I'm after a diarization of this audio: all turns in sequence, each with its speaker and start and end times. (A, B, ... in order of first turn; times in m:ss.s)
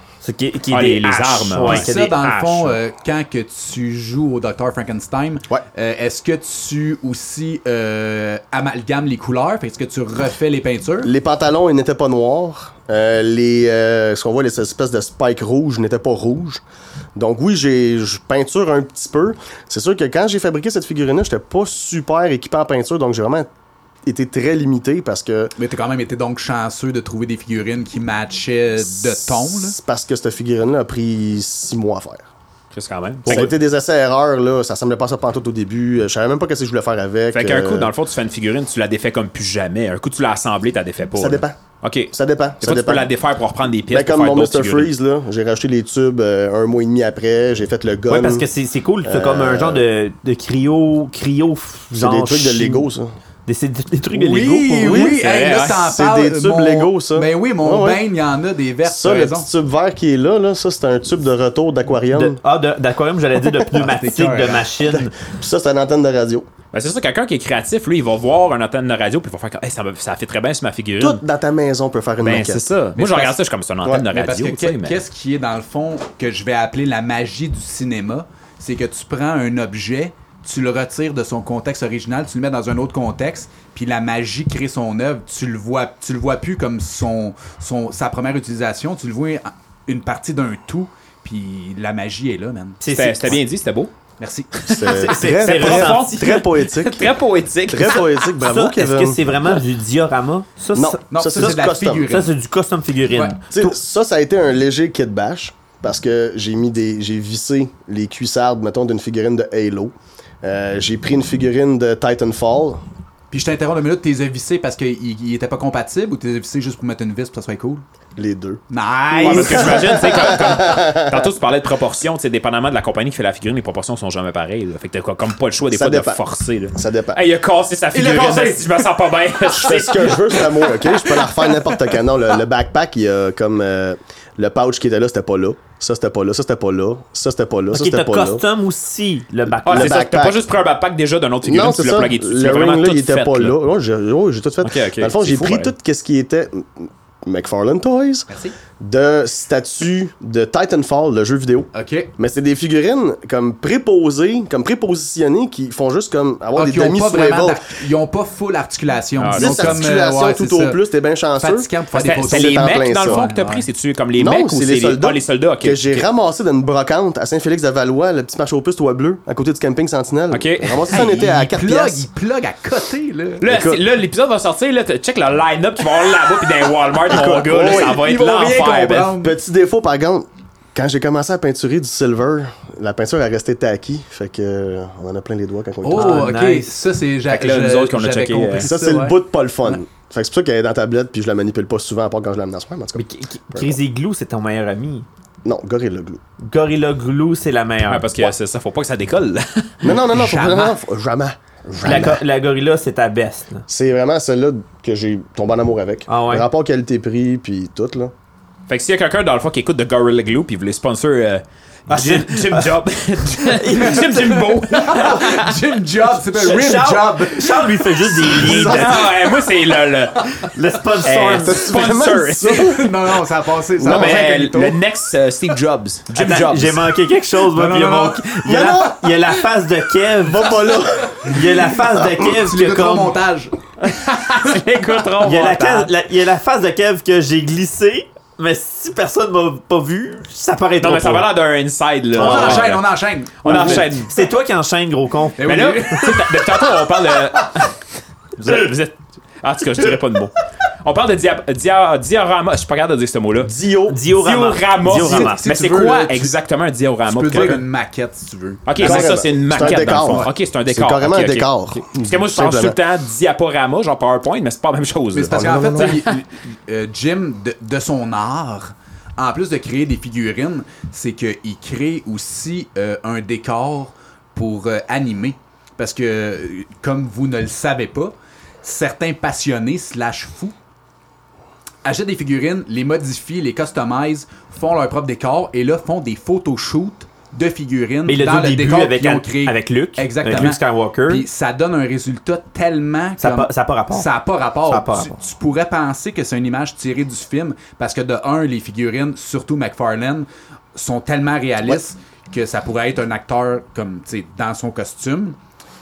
0:00.2-0:02.3 A
0:00.7-0:02.8 B
0:01.6-0:11.1 C
0:11.0-0:16.6 D
0:17.2-0:23.5 D
0:24.0-0:25.5 D
0:25.6-0:29.8 C
0:28.9-0:32.2 D
0:32.7-0:33.5 B
0:33.2-0:37.9 D
0:37.3-0:44.9 B
0:41.2-0:41.6 D
0:42.1-0:43.1 D
0:43.9-0:48.4 D
0:48.1-0:52.9 A
0:49.0-0:49.8 D
0:52.0-0:53.1 D
0:53.4-0:55.2 A
0:54.1-0:59.5 C
0:55.0-0:55.8 B
0:55.7-0:58.0 D
0:58.8-1:02.4 D
1:02.1-1:05.1 A
1:03.6-1:03.9 D
1:03.8-1:04.7 C
1:04.8-1:06.5 D
1:06.7-1:11.2 B
1:11.0-1:12.7 D
1:12.2-1:15.0 B
1:13.0-1:13.4 C
1:14.1-1:32.8 C
1:32.8-1:33.4 A
1:32.9-1:33.9 B
1:34.2-1:36.0 C
1:34.6-1:38.3 B
1:34.7-1:37.1 D
1:35.1-1:36.2 A
1:37.7-1:39.2 D
1:38.4-1:41.5 A
1:40.7-1:42.1 D
1:41.1-1:42.3 C
1:42.0-1:43.7 A
1:43.1-1:43.4 C
1:43.5-1:52.8 D
1:53.3-1:57.8 C
1:58.2-1:58.6 D
1:58.7-2:00.0 C
1:59.1-2:11.3 B
1:59.2-2:01.3 D
2:05.7-2:06.2 D
2:06.7-2:07.2 D
2:07.9-2:08.9 C
2:09.6-2:18.4 D
2:17.7-2:20.0 A
2:19.5-2:20.4 D
2:19.6-2:23.6 B
2:21.4-2:28.3 D
2:24.6-2:25.7 B
2:28.3-2:28.5 C
2:28.8-2:37.6 D
2:31.7-2:32.1 C
2:36.6-2:40.8 C
2:39.2-2:39.8 B
2:39.3-2:43.2 D
2:41.4-2:43.6 C
2:41.9-2:46.0 B
2:44.2-2:52.1 D
2:50.3-2:51.0 B
2:50.9-2:53.4 C
2:53.4-2:59.2 B
2:53.4-2:53.8 D
2:57.1-2:58.0 D
2:57.1-2:59.3 C
2:59.2-3:06.3 D
3:05.8-3:09.8 C
3:05.9-3:06.7 A
3:07.3-3:08.7 B
3:08.6-3:13.7 D
3:12.9-3:15.0 A
3:15.4-3:16.2 D
3:16.4-3:18.3 A
3:17.9-3:19.9 B
3:19.8-3:22.2 D
3:20.0-3:20.8 C
3:21.8-3:23.6 A
3:23.7-3:28.1 D
3:26.1-3:26.4 A
3:28.7-3:35.6 B
3:31.9-3:32.7 A
3:33.4-3:34.4 A
3:34.1-3:39.4 C
3:36.3-3:39.0 A
3:38.3-3:40.5 B
3:40.4-3:41.6 A
3:41.0-3:42.9 B
3:41.3-3:42.9 D
3:42.5-3:44.8 C
3:43.8-3:44.3 D
3:43.8-3:46.9 B
3:46.1-3:50.7 A
3:47.4-3:48.4 C
3:48.4-3:49.2 D
3:50.2-3:51.4 D
3:51.2-3:53.2 A
3:52.2-3:53.6 C
3:53.8-3:55.9 B
3:55.2-4:01.3 A
4:00.8-4:02.8 B
4:02.1-4:04.0 C
4:02.2-4:02.7 A
4:03.4-4:04.1 B
4:03.4-4:05.4 A
4:05.4-4:06.7 C
4:05.4-4:07.8 B
4:08.4-4:13.5 B
4:13.4-4:14.0 D
4:13.9-4:15.4 A
4:14.1-4:17.6 B
4:15.0-4:16.3 C
4:17.0-4:19.1 C
4:18.6-4:26.2 B
4:18.8-4:22.8 D
4:19.9-4:20.3 C
4:25.1-4:40.5 C
4:25.3-4:26.0 D
4:41.8-5:05.4 C
4:48.0-4:51.2 A
4:53.2-4:54.1 A
4:54.7-4:55.1 A